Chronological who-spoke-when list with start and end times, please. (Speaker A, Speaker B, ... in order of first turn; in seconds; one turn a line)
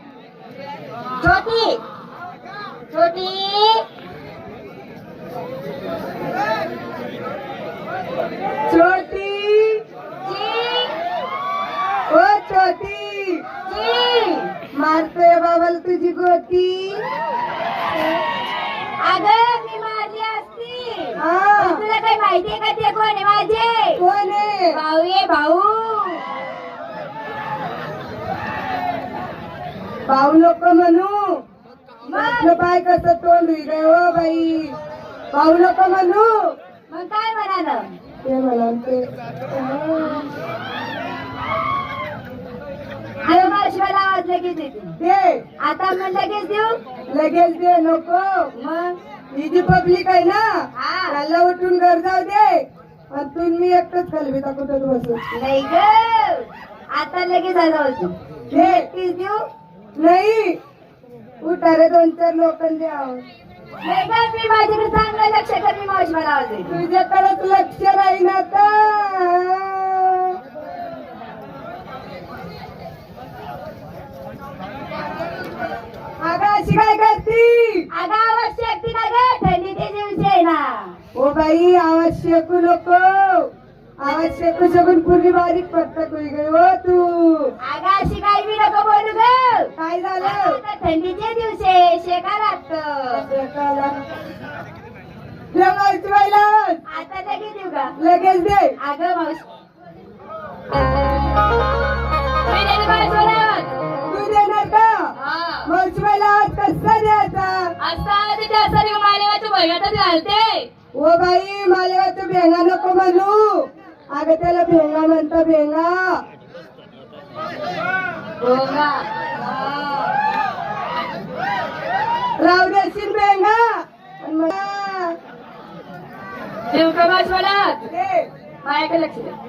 Speaker A: 1.2-1.8
Speaker A: 2.9-3.8
Speaker B: 8.7-9.8
Speaker A: 10.3-10.9
Speaker B: 12.1-13.4
Speaker A: 13.7-14.5
Speaker B: 14.7-17.0
Speaker A: 19.0-24.0
Speaker B: 21.2-21.8
Speaker B: 24.0-24.8
Speaker A: 24.7-26.2
Speaker B: 30.1-31.2
Speaker A: 32.0-32.6
Speaker B: 32.1-34.7
Speaker B: 35.3-36.3
Speaker A: 36.9-38.0
Speaker B: 38.2-40.3
Speaker A: 43.2-45.0
Speaker B: 43.3-43.6
Speaker B: 45.0-45.4
Speaker A: 45.6-46.8
Speaker B: 47.1-48.5
Speaker A: 48.5-49.0
Speaker B: 49.3-50.5
Speaker A: 50.8-51.2
Speaker B: 51.1-55.2
Speaker A: 55.3-59.4
Speaker B: 58.5-58.9
Speaker B: 60.0-60.5
Speaker B: 61.4-63.2
Speaker A: 63.8-66.8
Speaker B: 66.7-70.4
Speaker B: 76.2-77.9
Speaker A: 77.9-81.0
Speaker B: 81.2-83.5
Speaker B: 84.0-87.5
Speaker A: 87.6-93.3
Speaker B: 89.8-90.6
Speaker B: 93.1-94.0
Speaker B: 95.5-96.8
Speaker A: 96.9-98.0
Speaker B: 98.0-98.8
Speaker A: 98.8-99.5
Speaker A: 102.5-103.7
Speaker B: 104.1-105.0
Speaker A: 105.2-105.7
Speaker B: 105.7-107.7
Speaker A: 107.8-110.7
Speaker B: 111.0-116.2
Speaker A: 118.4-119.1
Speaker B: 119.3-120.1
Speaker B: 122.4-123.7
Speaker B: 124.2-125.2
Speaker A: 126.7-127.9
Speaker B: 127.8-128.3
Speaker A: 128.6-129.3